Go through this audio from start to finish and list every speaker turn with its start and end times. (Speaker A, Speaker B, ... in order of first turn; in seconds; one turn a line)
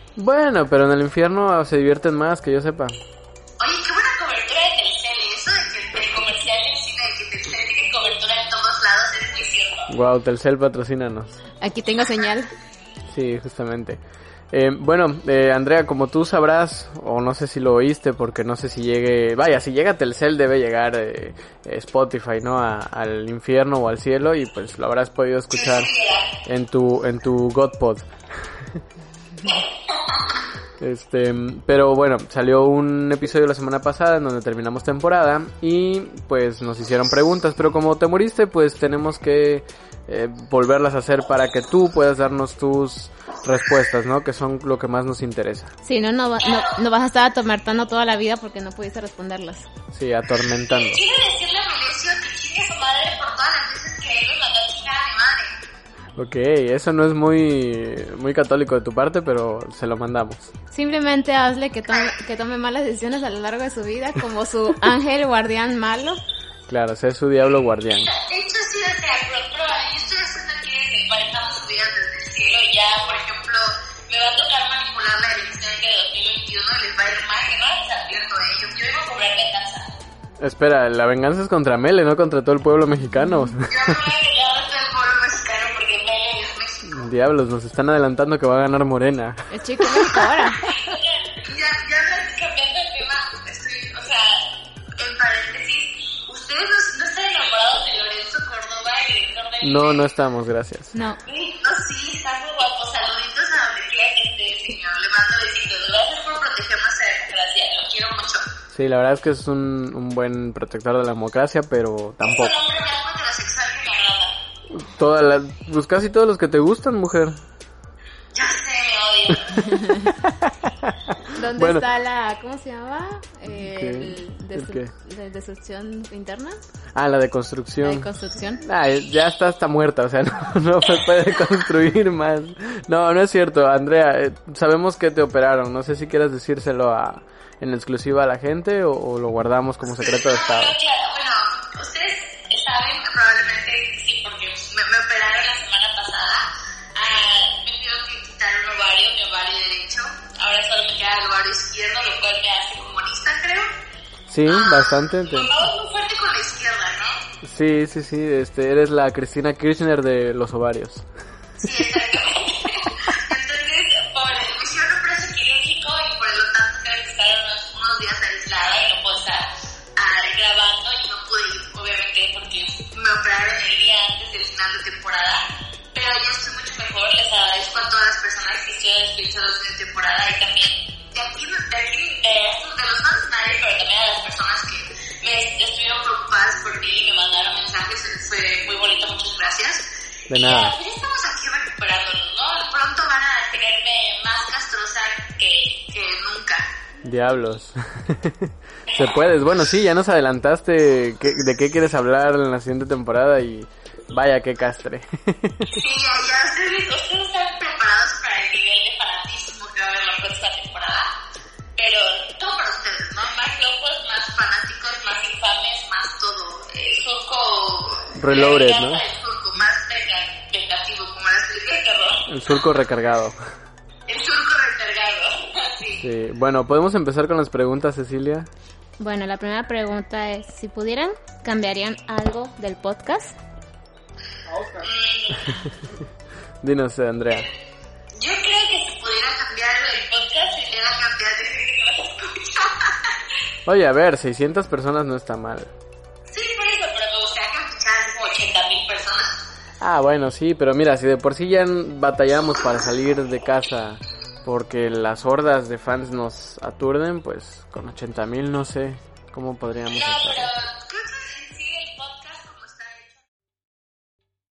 Speaker A: 0.1-3.0
Speaker B: 3.6-9.9
Speaker A: 9.9-11.4
Speaker C: 11.6-12.5
Speaker A: 13.1-14.0
Speaker A: 14.5-25.9
Speaker B: 25.5-26.2
Speaker A: 26.4-28.1
Speaker B: 29.4-30.2
Speaker A: 30.8-45.7
Speaker C: 45.8-49.7
Speaker B: 46.4-46.8
Speaker A: 49.9-51.0
Speaker B: 50.7-55.5
Speaker A: 56.2-60.5
Speaker C: 60.7-66.2
Speaker B: 61.9-62.2
Speaker A: 66.7-68.1
Speaker B: 67.9-79.9
Speaker A: 80.4-83.6
Speaker B: 83.7-87.0
Speaker A: 86.8-89.5
Speaker C: 89.5-90.6
Speaker B: 90.7-94.4
Speaker B: 95.0-100.0
Speaker A: 99.6-100.9
Speaker C: 100.9-101.2
Speaker B: 101.2-108.4
Speaker A: 108.7-112.6
Speaker B: 112.2-114.3
Speaker A: 114.7-117.4
Speaker B: 118.3-119.8
Speaker C: 119.7-120.0
Speaker A: 120.2-120.9
Speaker C: 121.3-126.5
Speaker A: 121.5-121.8
Speaker A: 123.6-124.9
Speaker A: 126.9-140.7
Speaker C: 127.8-128.6
Speaker B: 139.9-153.7
Speaker A: 154.3-155.5
Speaker B: 154.4-157.2
Speaker A: 157.4-161.0
Speaker B: 161.6-175.4
Speaker B: 175.9-196.7
Speaker A: 190.3-190.7
Speaker A: 197.0-205.7
Speaker B: 205.7-211.1
Speaker B: 211.8-222.2
Speaker A: 218.2-219.0
Speaker A: 222.3-223.4
Speaker B: 224.1-226.0
Speaker A: 226.0-228.5
Speaker C: 229.0-233.3
Speaker B: 234.8-235.5
Speaker A: 236.6-237.5
Speaker B: 238.2-242.9
Speaker A: 243.7-245.7
Speaker B: 246.3-249.3
Speaker A: 249.8-260.5
Speaker B: 259.9-263.2